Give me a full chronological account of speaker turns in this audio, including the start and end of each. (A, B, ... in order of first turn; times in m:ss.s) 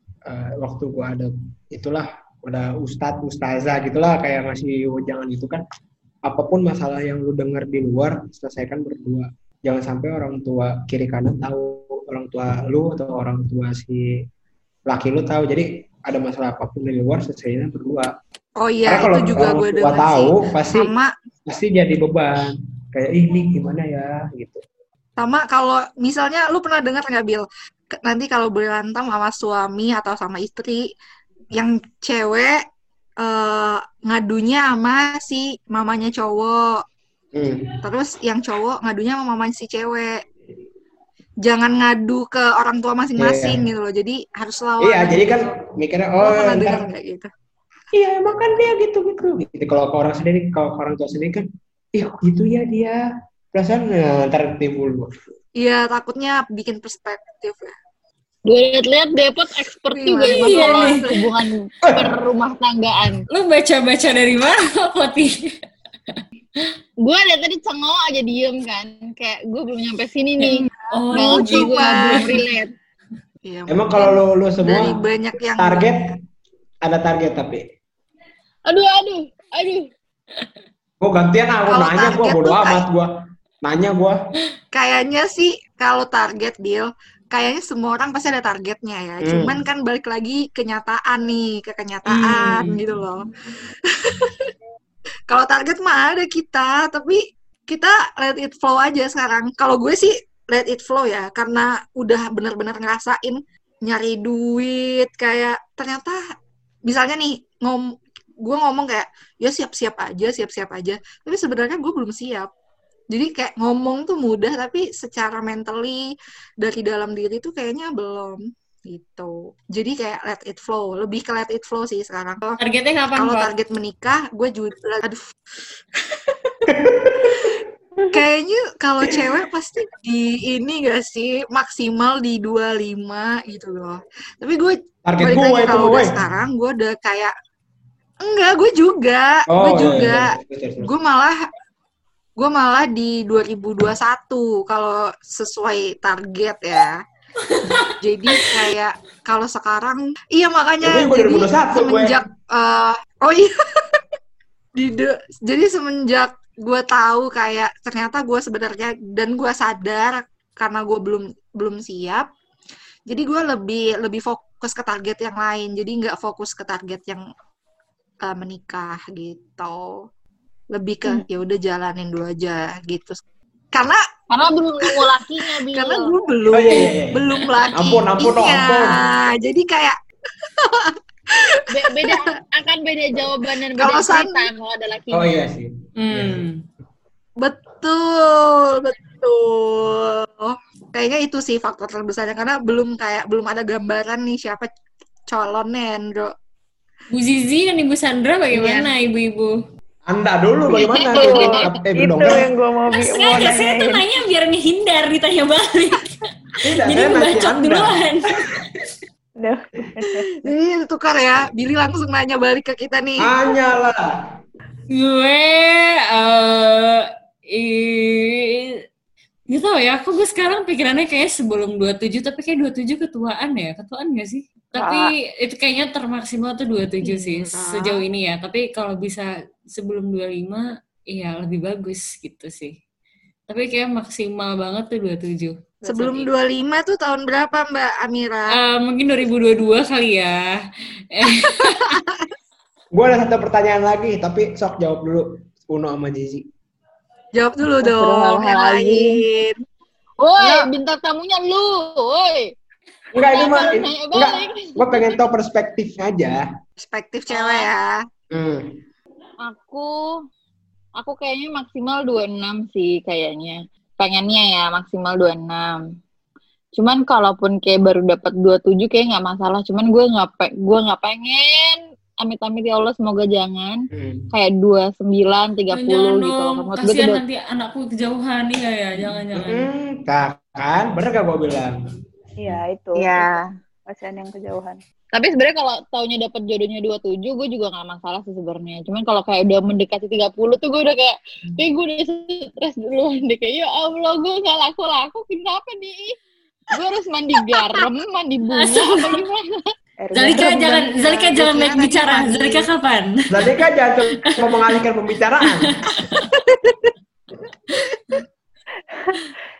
0:00.3-0:05.6 A
0:06.2-0:14.1 A
0:14.9-0:18.1 A
0:18.6-0:21.1 B
0:18.9-0:20.9 A
0:21.5-0:24.6 A
0:25.2-0:27.4 B
0:28.0-0:30.8 B
0:31.5-0:32.6 B
0:33.2-0:36.8 B
0:37.3-0:37.7 A
0:37.8-0:40.2 B
0:41.4-0:45.5 B
0:43.2-0:43.6 A
0:44.8-0:46.8 A
0:46.2-0:47.3 B
0:47.9-0:53.0 A
0:53.5-0:55.1 A
0:55.6-0:57.7 B
0:58.4-1:03.2 C
0:59.9-1:01.2 B
1:00.2-1:01.0 D
1:01.9-1:02.2 A
1:03.3-1:05.5 D
1:07.0-1:12.7 C
1:10.4-1:12.4 D
1:10.5-1:12.4 B
1:13.4-1:16.0 B
1:13.7-1:14.9 A
1:15.6-1:16.1 A
1:16.8-1:17.6 A
1:18.7-1:19.9 C
1:21.0-1:23.1 A
1:21.7-1:22.8 B
1:23.6-1:24.2 A
1:24.7-1:33.3 B
1:29.2-1:29.6 A
1:32.1-1:32.8 D
1:33.8-1:34.5 B
1:35.3-1:46.2 B
1:46.8-1:52.5 B
1:53.1-1:56.1 B
1:56.6-2:02.6 B
2:02.6-2:03.5 D
2:03.2-2:05.2 B
2:06.0-2:06.6 B
2:06.6-2:08.2 A
2:08.1-2:17.3 B
2:15.0-2:16.2 A
2:18.2-2:21.4 B
2:19.5-2:20.9 A
2:22.4-2:27.0 B
2:27.4-2:28.6 D
2:28.0-2:34.1 B
2:30.8-2:32.2 A
2:34.7-2:42.3 B
2:43.1-2:47.2 B
2:48.2-2:49.9 B
2:50.7-2:53.2 B
2:53.7-2:54.0 B
2:54.3-2:56.2 C
2:54.8-3:02.3 B
2:56.5-2:59.0 A
3:01.7-3:05.4 C
3:03.6-3:04.5 B
3:05.1-3:06.4 A
3:06.0-3:06.6 D
3:07.4-3:14.7 B
3:15.3-3:16.3 B
3:17.1-3:19.5 D
3:18.5-3:18.9 B
3:20.0-3:22.5 A
3:20.7-3:21.6 C
3:21.1-3:24.0 E
3:22.9-3:26.2 D
3:26.6-3:28.6 A
3:26.8-3:28.6 D
3:29.4-3:30.5 E
3:30.2-3:33.4 B
3:33.2-3:34.1 A
3:34.9-3:38.8 D
3:39.5-3:52.7 D
3:44.8-3:45.1 E
3:47.0-3:48.0 B
3:53.5-3:55.5 D
3:55.8-3:56.3 E
3:55.8-3:58.6 B
3:58.5-4:00.4 D
4:01.1-4:02.0 D
4:01.4-4:02.3 B
4:02.9-4:06.4 A
4:07.3-4:09.6 B
4:07.8-4:09.2 E
4:10.2-4:12.5 C
4:10.4-4:10.7 B
4:13.2-4:15.2 C
4:13.2-4:16.4 A
4:16.8-4:18.0 B
4:17.3-4:17.7 C
4:18.3-4:18.8 A
4:19.4-4:19.9 C
4:21.0-4:25.8 C
4:26.8-4:33.8 C
4:33.9-4:34.2 A
4:34.3-4:37.2 C
4:35.7-4:39.7 D
4:39.3-4:41.8 A
4:42.4-4:43.3 E
4:43.0-4:43.3 C
4:43.9-4:44.8 E
4:45.1-4:56.1 C
4:56.7-4:59.6 C
4:58.6-4:59.2 D
5:00.0-5:01.0 E
5:00.1-5:04.7 D
5:01.0-5:02.7 B
5:03.3-5:05.8 A
5:05.4-5:06.3 D